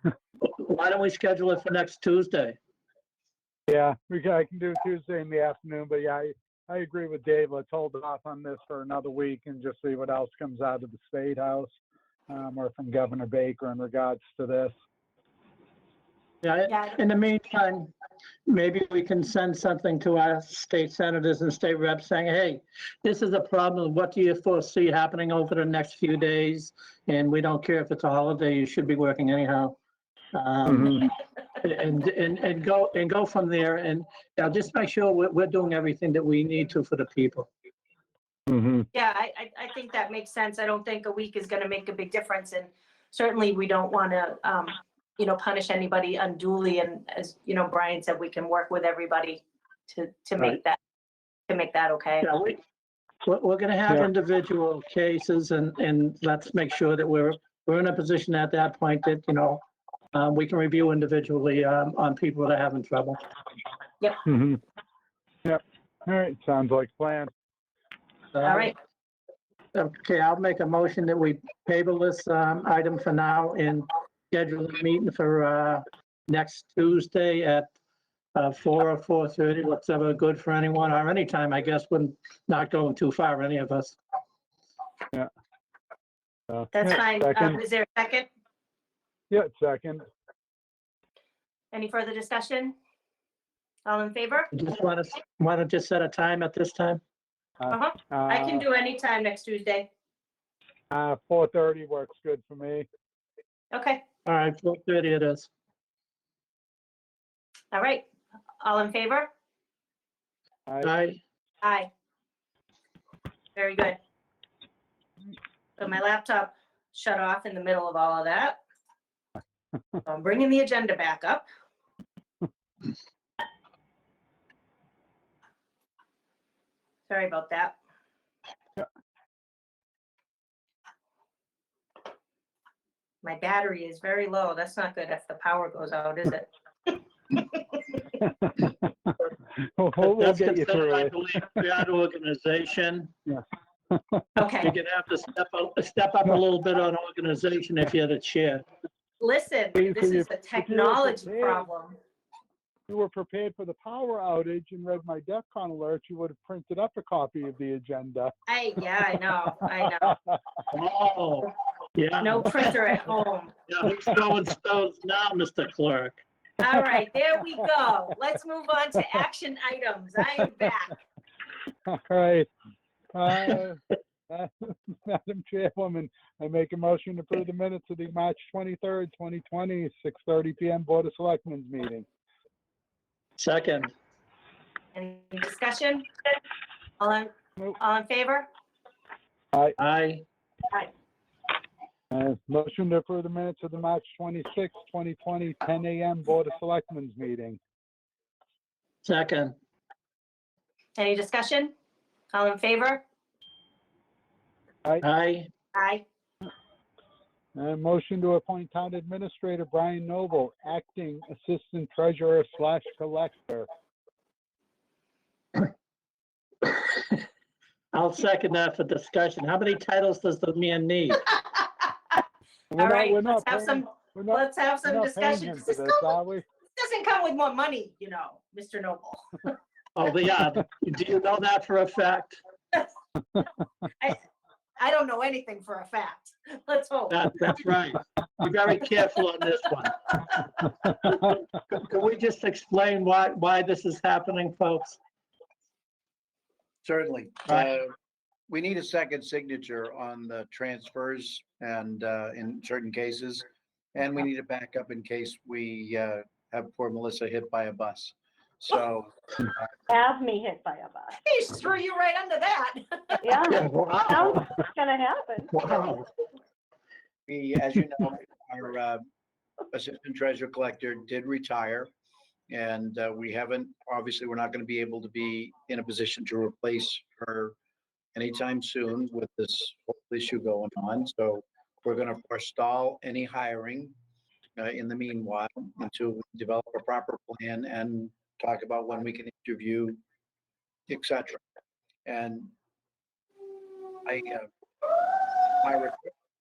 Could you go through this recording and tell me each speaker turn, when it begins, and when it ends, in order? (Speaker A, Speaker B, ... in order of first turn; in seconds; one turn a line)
Speaker A: 0.4-2.6
Speaker B: 3.7-11.7
Speaker B: 12.3-14.7
Speaker A: 16.4-17.9
Speaker C: 16.7-17.0
Speaker A: 18.5-29.8
Speaker A: 30.3-37.5
Speaker D: 30.6-31.0
Speaker D: 38.5-38.9
Speaker C: 38.9-50.8
Speaker C: 51.5-52.3
Speaker A: 52.2-52.6
Speaker A: 53.2-59.6
Speaker A: 60.1-63.2
Speaker B: 64.2-64.6
Speaker B: 65.4-67.3
Speaker A: 68.3-68.7
Speaker C: 68.4-68.7
Speaker A: 69.7-77.7
Speaker A: 78.3-84.0
Speaker B: 86.5-87.6
Speaker C: 86.7-88.3
Speaker B: 89.3-90.0
Speaker C: 91.7-92.7
Speaker C: 93.8-94.5
Speaker A: 94.5-97.0
Speaker B: 97.6-98.6
Speaker C: 97.7-99.9
Speaker B: 100.9-102.8
Speaker C: 103.7-104.0
Speaker A: 104.2-105.5
Speaker C: 107.7-108.1
Speaker C: 108.6-109.3
Speaker B: 110.7-110.9
Speaker A: 110.8-111.2
Speaker C: 111.6-111.9
Speaker C: 113.5-114.0
Speaker C: 115.8-118.6
Speaker C: 120.0-121.4
Speaker C: 127.1-127.8
Speaker C: 133.2-136.5
Speaker C: 137.3-138.0
Speaker B: 138.2-141.2
Speaker A: 140.0-143.1
Speaker B: 143.3-144.2
Speaker C: 144.3-144.7
Speaker A: 144.6-148.6
Speaker C: 149.2-152.0
Speaker B: 149.7-151.7
Speaker B: 152.9-158.3
Speaker C: 158.5-160.2
Speaker B: 159.8-160.4
Speaker A: 160.7-162.8
Speaker C: 162.2-163.5
Speaker A: 163.7-166.2
Speaker C: 166.6-170.9
Speaker B: 171.8-172.5
Speaker B: 173.1-182.1
Speaker A: 183.4-183.9
Speaker C: 184.9-186.1
Speaker C: 187.0-188.5
Speaker A: 189.8-190.2
Speaker B: 192.1-197.6
Speaker A: 199.0-199.6
Speaker C: 201.0-201.7
Speaker C: 202.3-203.0
Speaker A: 205.0-205.5
Speaker C: 205.7-206.0
Speaker B: 207.5-213.7
Speaker A: 217.9-221.2
Speaker B: 222.7-226.4
Speaker C: 222.8-226.1
Speaker C: 226.7-229.5
Speaker A: 229.9-232.4
Speaker C: 234.8-237.2
Speaker A: 237.1-240.0
Speaker A: 241.0-245.0
Speaker D: 246.8-247.9
Speaker D: 248.5-259.1
Speaker E: 259.9-261.2
Speaker C: 261.2-263.3
Speaker E: 263.2-265.5
Speaker A: 263.5-264.5
Speaker A: 265.5-266.1
Speaker D: 267.3-269.0
Speaker D: 269.7-271.9
Speaker D: 272.5-277.5
Speaker D: 278.1-283.9
Speaker D: 284.6-290.0
Speaker D: 290.9-291.4
Speaker D: 292.0-292.5
Speaker D: 294.0-294.5
Speaker D: 295.6-296.1